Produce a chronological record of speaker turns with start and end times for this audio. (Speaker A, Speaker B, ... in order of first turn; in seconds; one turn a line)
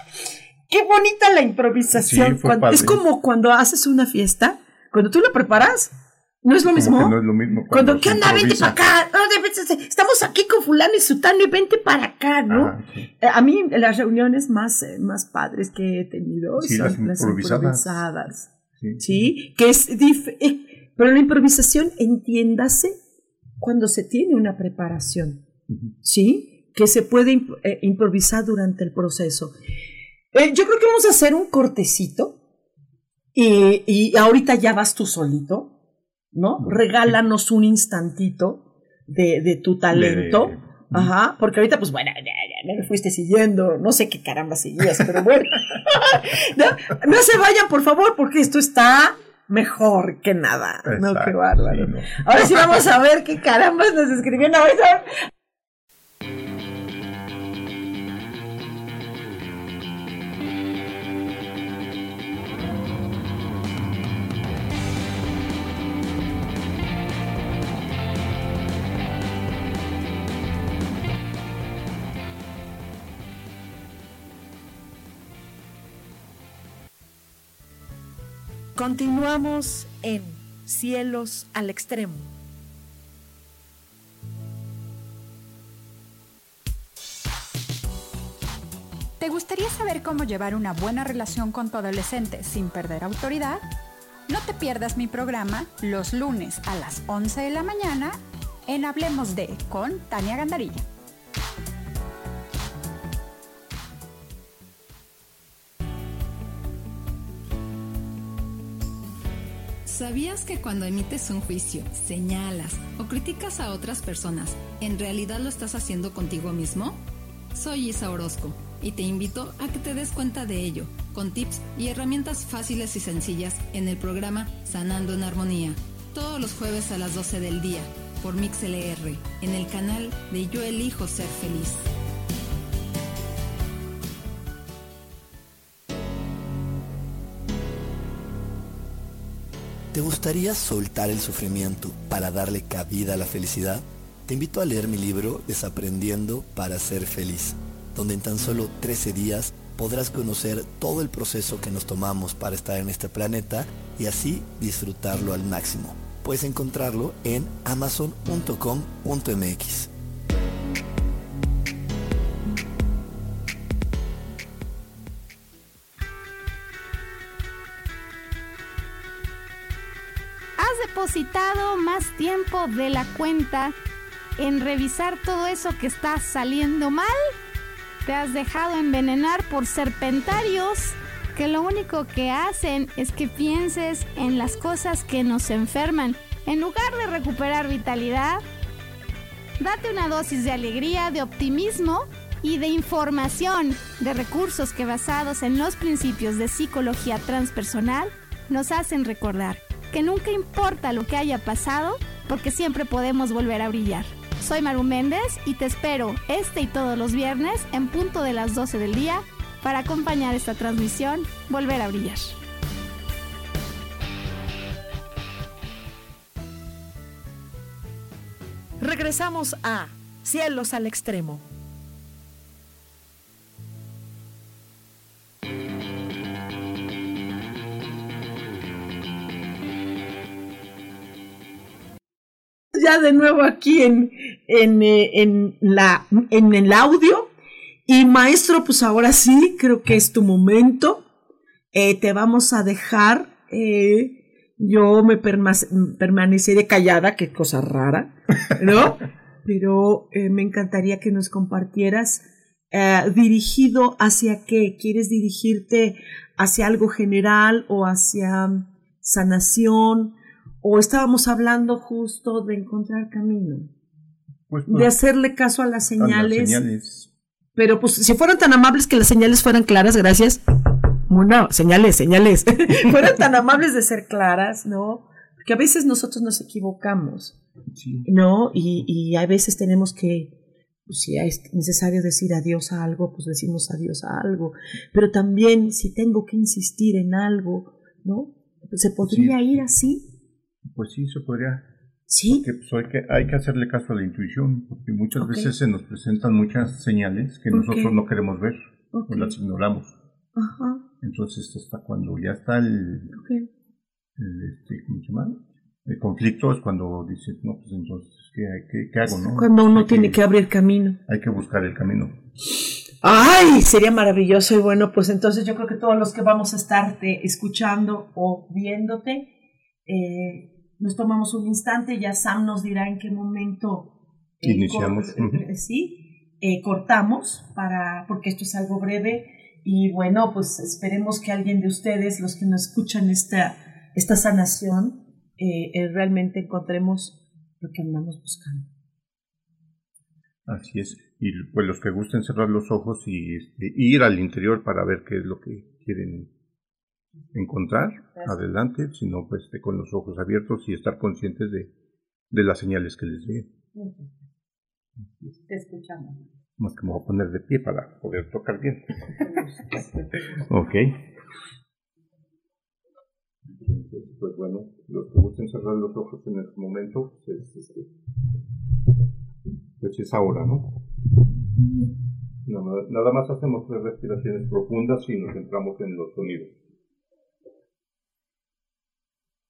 Speaker A: 0.7-5.9
Speaker B: 1.9-3.0
Speaker A: 6.4-7.2
Speaker B: 6.7-8.8
Speaker A: 7.7-23.0
Speaker B: 12.5-13.1
Speaker B: 16.6-18.0
Speaker B: 18.8-19.2
Speaker A: 23.6-25.4
Speaker A: 26.0-29.5
Speaker A: 30.3-32.4
Speaker A: 33.3-35.7
Speaker A: 36.3-55.2
Speaker B: 39.9-41.1
Speaker B: 50.9-52.2
Speaker C: 78.8-82.3
Speaker D: 89.2-93.6
Speaker D: 94.3-100.8
Speaker E: 109.8-117.0
Speaker E: 117.5-131.8
Speaker F: 139.9-159.9
Speaker G: 170.6-173.7
Speaker G: 174.4-177.2
Speaker G: 178.0-188.4
Speaker G: 189.6-212.3
Speaker C: 218.8-221.4
Speaker A: 232.7-237.3
Speaker A: 237.9-241.0
Speaker A: 241.7-263.7
Speaker B: 264.5-264.9
Speaker A: 264.7-266.6
Speaker B: 266.0-267.1
Speaker A: 267.6-270.4
Speaker A: 271.1-277.4
Speaker B: 277.8-278.1
Speaker A: 278.1-280.3
Speaker A: 280.9-290.1
Speaker B: 289.0-289.4
Speaker B: 290.7-291.6
Speaker A: 292.1-292.4
Speaker B: 292.3-299.9
Speaker A: 295.2-295.5
Speaker A: 297.5-298.0
Speaker A: 298.9-299.4
Speaker A: 300.4-300.8
Speaker B: 301.0-303.1
Speaker A: 303.1-303.5
Speaker B: 304.2-310.2
Speaker A: 309.1-311.0
Speaker B: 311.1-312.1
Speaker A: 313.0-319.3
Speaker A: 319.9-338.7
Speaker B: 324.4-325.4
Speaker B: 340.5-346.3
Speaker B: 347.3-351.7
Speaker B: 352.3-353.5
Speaker A: 355.4-356.1
Speaker B: 356.6-358.9
Speaker A: 359.3-359.8
Speaker B: 360.5-361.0
Speaker B: 363.5-367.9
Speaker B: 369.8-370.8
Speaker B: 372.4-376.5